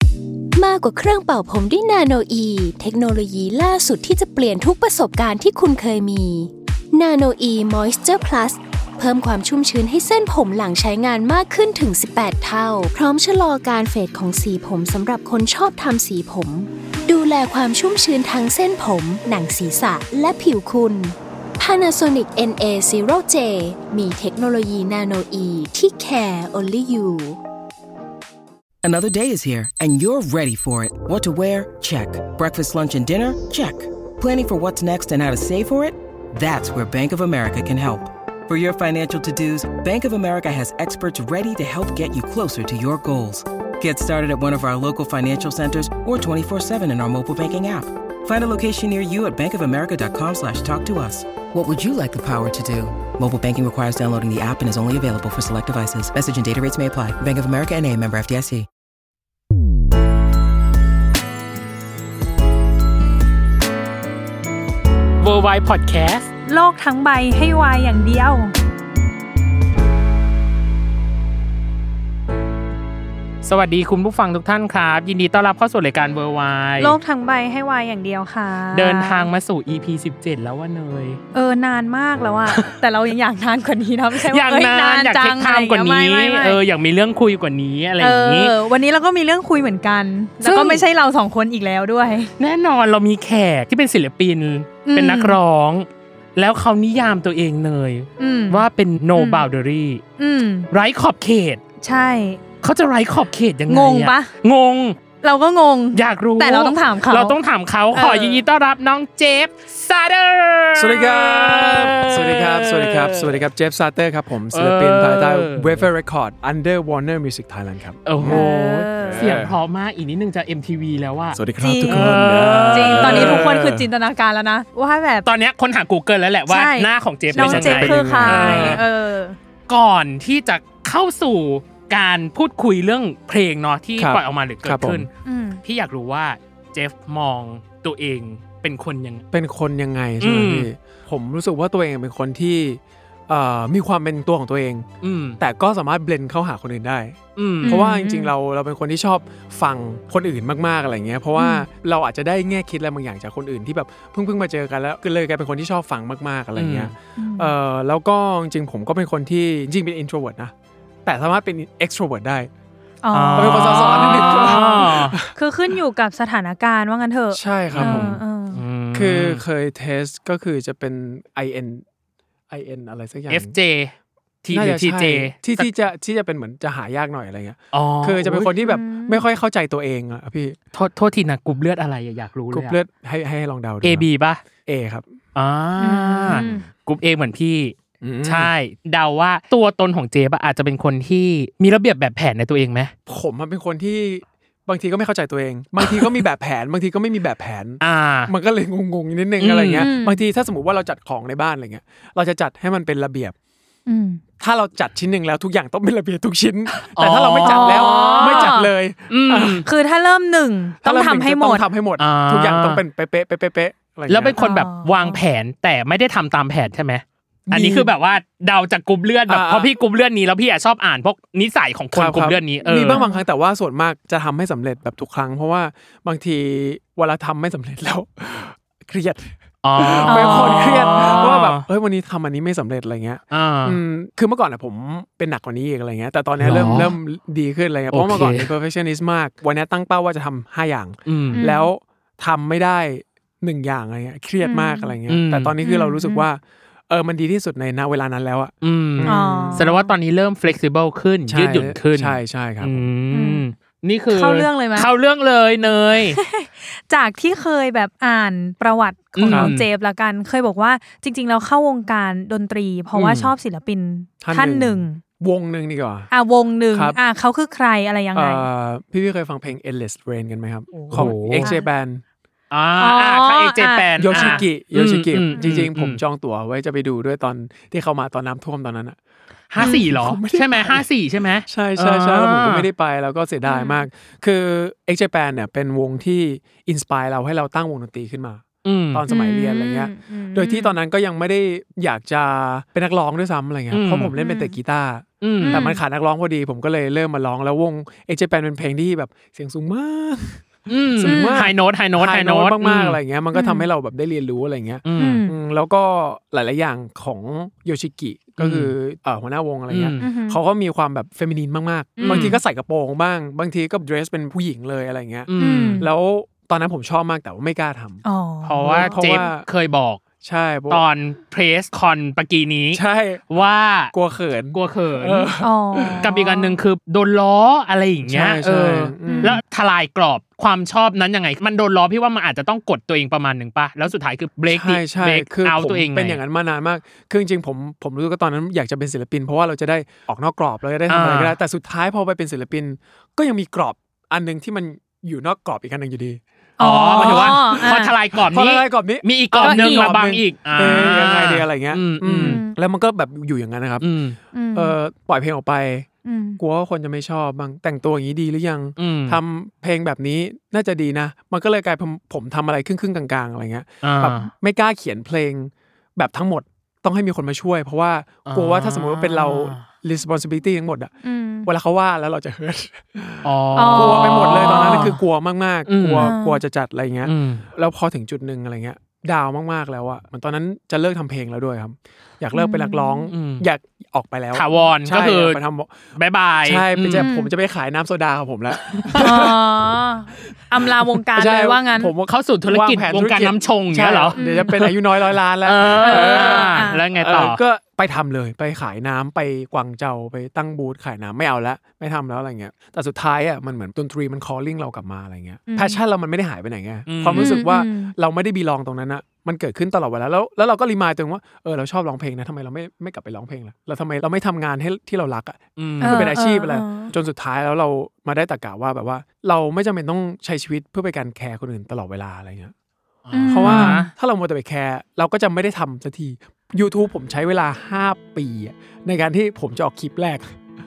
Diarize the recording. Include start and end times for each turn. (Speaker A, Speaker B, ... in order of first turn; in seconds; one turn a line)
Speaker A: 0.6-27.4
Speaker B: 28.8-58.7
Speaker C: 65.2-66.3
Speaker D: 66.5-68.5
Speaker C: 73.4-77.0
Speaker D: 76.8-79.3
Speaker C: 78.7-81.2
Speaker D: 81.3-86.6
Speaker C: 82.5-82.7
Speaker C: 84.1-88.5
Speaker D: 88.0-92.3
Speaker C: 90.4-90.8
Speaker C: 92.4-100.0
Speaker D: 94.8-95.4
Speaker D: 98.2-99.5
Speaker D: 100.2-100.7
Speaker C: 100.7-101.6
Speaker D: 101.8-102.4
Speaker C: 102.6-105.0
Speaker D: 103.7-104.3
Speaker D: 105.2-107.3
Speaker C: 105.9-113.4
Speaker D: 107.9-108.4
Speaker E: 110.7-118.5
Speaker C: 114.5-115.9
Speaker C: 118.0-123.5
Speaker D: 118.2-119.2
Speaker E: 119.0-119.5
Speaker E: 121.3-123.9
Speaker D: 121.6-125.3
Speaker C: 125.2-128.8
Speaker D: 126.5-129.4
Speaker E: 127.3-128.8
Speaker C: 129.7-135.1
Speaker E: 134.0-135.0
Speaker D: 135.2-135.6
Speaker C: 135.6-139.2
Speaker E: 139.3-144.8
Speaker C: 140.2-140.7
Speaker C: 145.0-145.4
Speaker E: 145.4-160.5
Speaker C: 147.3-147.8
Speaker D: 147.6-148.3
Speaker D: 151.4-151.7
Speaker C: 156.6-156.9
Speaker D: 157.2-157.5
Speaker E: 161.0-162.5
Speaker D: 163.0-168.6
Speaker C: 163.1-165.2
Speaker E: 163.3-165.3
Speaker E: 167.3-168.2
Speaker C: 167.7-169.4
Speaker E: 168.9-171.8
Speaker E: 172.5-173.5
Speaker C: 173.3-175.7
Speaker E: 174.5-180.6
Speaker C: 177.7-178.5
Speaker D: 178.6-179.2
Speaker C: 180.7-182.8
Speaker E: 182.5-184.1
Speaker C: 183.8-184.4
Speaker E: 184.6-185.1
Speaker C: 185.3-192.9
Speaker D: 185.8-186.7
Speaker E: 188.0-188.5
Speaker E: 193.1-203.3
Speaker C: 195.8-196.2
Speaker C: 197.8-198.3
Speaker C: 199.4-199.9
Speaker D: 199.8-200.2
Speaker D: 203.9-204.2
Speaker E: 204.4-209.7
Speaker C: 206.7-208.5
Speaker D: 207.4-208.7
Speaker C: 209.1-209.6
Speaker D: 209.6-211.6
Speaker E: 210.8-214.4
Speaker C: 212.0-212.8
Speaker C: 214.1-223.0
Speaker D: 214.4-215.2
Speaker E: 217.5-217.9
Speaker E: 219.3-219.7
Speaker E: 221.9-249.7
Speaker D: 222.6-223.2
Speaker C: 229.6-231.6
Speaker D: 230.0-231.2
Speaker C: 233.3-233.8
Speaker C: 236.4-236.9
Speaker C: 237.9-238.5
Speaker C: 241.1-241.4
Speaker D: 241.3-241.7
Speaker D: 244.4-244.9
Speaker C: 245.1-245.5
Speaker D: 245.6-246.3
Speaker C: 248.6-256.2
Speaker D: 249.0-249.9
Speaker E: 251.3-252.8
Speaker D: 253.1-253.4
Speaker D: 254.1-254.9
Speaker D: 256.1-265.0
Speaker C: 259.1-259.7
Speaker E: 259.3-259.5
Speaker E: 262.9-263.3
Speaker E: 264.2-266.1
Speaker D: 266.1-268.5
Speaker E: 266.7-267.0
Speaker E: 268.1-272.0
Speaker D: 270.7-271.6
Speaker C: 270.9-271.5
Speaker C: 272.5-276.0
Speaker D: 272.8-274.5
Speaker E: 274.0-279.0
Speaker C: 279.5-282.7
Speaker E: 279.5-280.8
Speaker D: 279.6-279.8
Speaker E: 281.4-318.0
Speaker D: 283.4-283.9
Speaker C: 288.6-289.0
Speaker D: 289.1-290.7
Speaker C: 293.7-294.1
Speaker D: 294.2-294.6
Speaker C: 295.2-295.6
Speaker D: 295.4-295.8
Speaker C: 300.7-303.0
Speaker D: 301.0-301.4
Speaker D: 303.3-303.7
Speaker C: 304.8-305.3
Speaker D: 305.0-305.3
Speaker C: 308.4-308.7
Speaker C: 309.7-310.0
Speaker D: 310.0-310.4
Speaker D: 312.0-312.3
Speaker C: 312.0-312.4
Speaker C: 315.3-315.8
Speaker D: 315.4-315.9
Speaker D: 318.0-319.2
Speaker C: 318.4-320.0
Speaker E: 318.6-319.4
Speaker E: 320.2-320.8
Speaker C: 320.7-323.9
Speaker E: 322.7-323.2
Speaker E: 323.9-326.1
Speaker C: 324.5-325.3
Speaker D: 325.4-326.6
Speaker C: 326.0-336.2
Speaker E: 328.1-329.4
Speaker D: 329.1-329.4
Speaker E: 334.5-346.2
Speaker C: 340.9-341.3
Speaker D: 346.6-347.9
Speaker C: 346.6-352.4
Speaker E: 346.9-353.9
Speaker D: 349.4-350.0
Speaker D: 352.2-352.5
Speaker C: 353.8-354.2
Speaker D: 354.3-354.8
Speaker E: 354.5-355.9
Speaker D: 356.0-356.4
Speaker E: 356.4-370.9
Speaker C: 358.8-359.2
Speaker C: 363.8-364.3
Speaker C: 368.3-369.6
Speaker D: 371.0-371.5
Speaker E: 371.4-385.7
Speaker C: 373.2-375.0
Speaker D: 373.6-374.6
Speaker C: 375.7-376.1
Speaker D: 376.0-376.4
Speaker C: 377.0-377.4
Speaker D: 382.3-383.0
Speaker C: 383.1-383.5
Speaker C: 384.3-385.4
Speaker C: 385.9-387.1
Speaker E: 386.4-389.4
Speaker D: 387.0-387.3
Speaker C: 388.7-389.3
Speaker D: 388.9-391.9
Speaker E: 391.1-422.5
Speaker C: 392.1-394.8
Speaker D: 394.1-394.5
Speaker C: 395.4-397.4
Speaker D: 395.8-396.8
Speaker D: 405.5-405.8
Speaker C: 406.9-407.3
Speaker D: 407.1-407.9
Speaker C: 415.6-416.1
Speaker D: 415.8-416.9
Speaker C: 423.1-423.9
Speaker D: 423.1-423.9
Speaker E: 423.3-430.4